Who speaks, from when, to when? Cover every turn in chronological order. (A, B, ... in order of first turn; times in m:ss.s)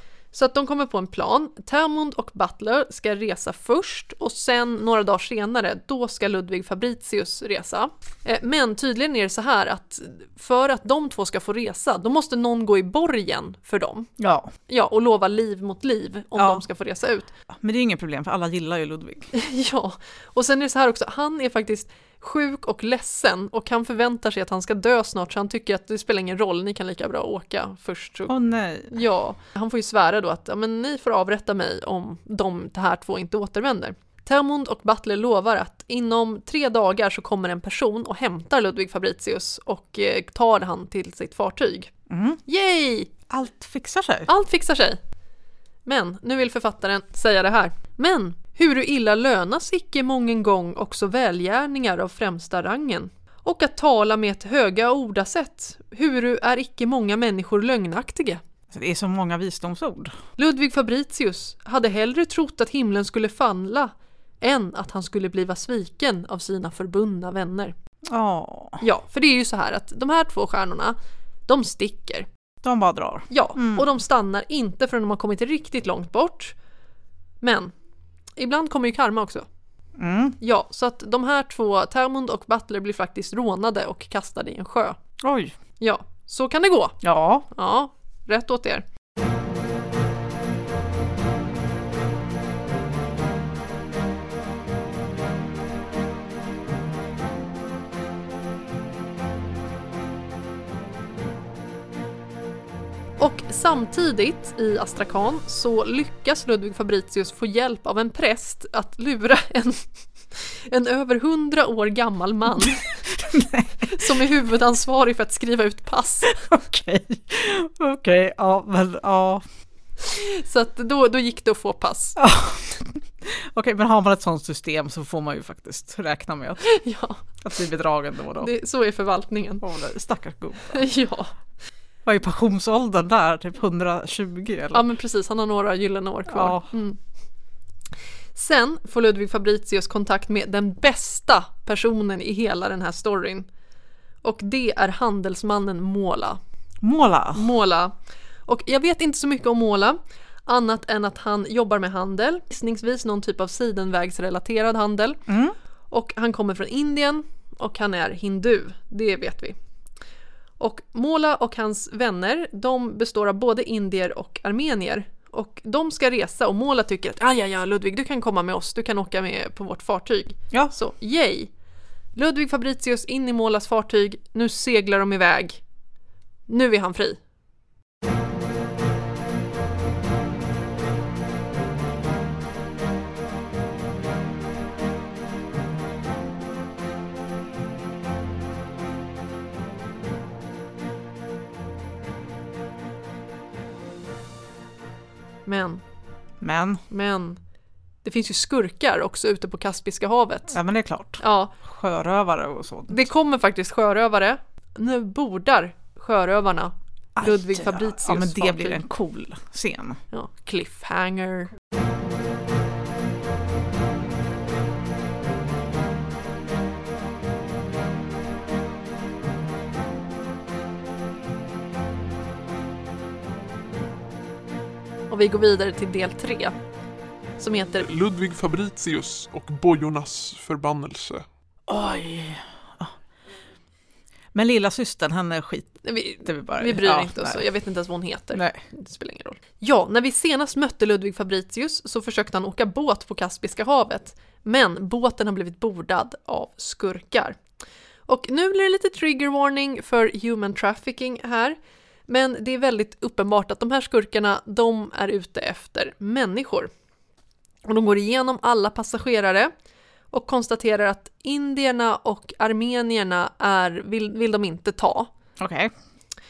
0:00.3-0:14.1 A
0:14.2-0:14.5 B
0:14.7-0:17.3 A
0:16.4-0:16.6 B
0:17.5-0:19.3 B
0:19.3-0:28.3 A
0:28.3-0:28.9 B
0:28.9-0:41.9 A
0:42.1-0:42.4 B
0:42.4-0:43.1 A
0:43.3-0:44.3 B
0:44.3-0:45.0 A
0:45.8-0:58.4 A
0:58.7-1:00.1 B
1:00.4-1:07.7 A
1:08.1-1:08.8 B
1:08.8-1:11.0 A
1:11.5-1:12.3 A
1:12.6-1:13.9 B
1:13.3-1:16.5 A
1:17.4-1:17.7 A
1:18.4-1:19.4 A
1:20.0-1:20.4 B
1:20.4-1:25.0 A
1:25.2-1:25.5 B
1:25.8-1:28.8 A
1:27.0-1:27.4 B
1:43.2-1:53.0 A
1:52.6-1:54.2 B
1:53.9-1:56.4 A
1:56.3-1:59.4 B
2:00.0-2:02.2 A
2:02.2-2:06.6 B
2:06.6-2:07.2 A
2:07.4-2:08.5 B
2:08.4-2:09.6 A
2:09.6-2:10.8 B
2:10.7-2:11.3 A
2:12.0-2:14.8 B
2:14.7-2:17.0 A
2:16.3-2:16.7 B
2:18.3-2:23.5 A
2:24.2-2:26.4 A
2:26.8-2:27.4 B
2:27.3-2:27.9 A
2:28.4-2:35.2 A
2:35.3-2:35.5 B
2:35.9-2:39.6 A
2:40.6-2:51.5 A
2:52.2-2:55.6 A
2:56.5-2:57.2 A
3:15.4-3:15.8 A
3:16.4-3:16.8 B
3:16.9-3:17.4 A
3:18.0-3:20.6 A
3:20.5-3:23.0 B
3:21.2-3:21.5 A
3:22.9-3:28.8 A
3:27.2-3:30.0 B
3:30.1-3:31.5 A
3:45.1-3:46.6 A
3:47.4-3:47.9 A
3:47.8-3:51.2 C
3:51.7-3:52.9 B
3:54.3-3:57.4 B
3:55.8-4:07.4 A
3:58.3-3:58.6 B
4:08.1-4:11.6 A
4:12.1-4:16.7 A
4:17.6-4:19.5 A
4:20.1-4:25.1 A
4:25.4-4:25.7 B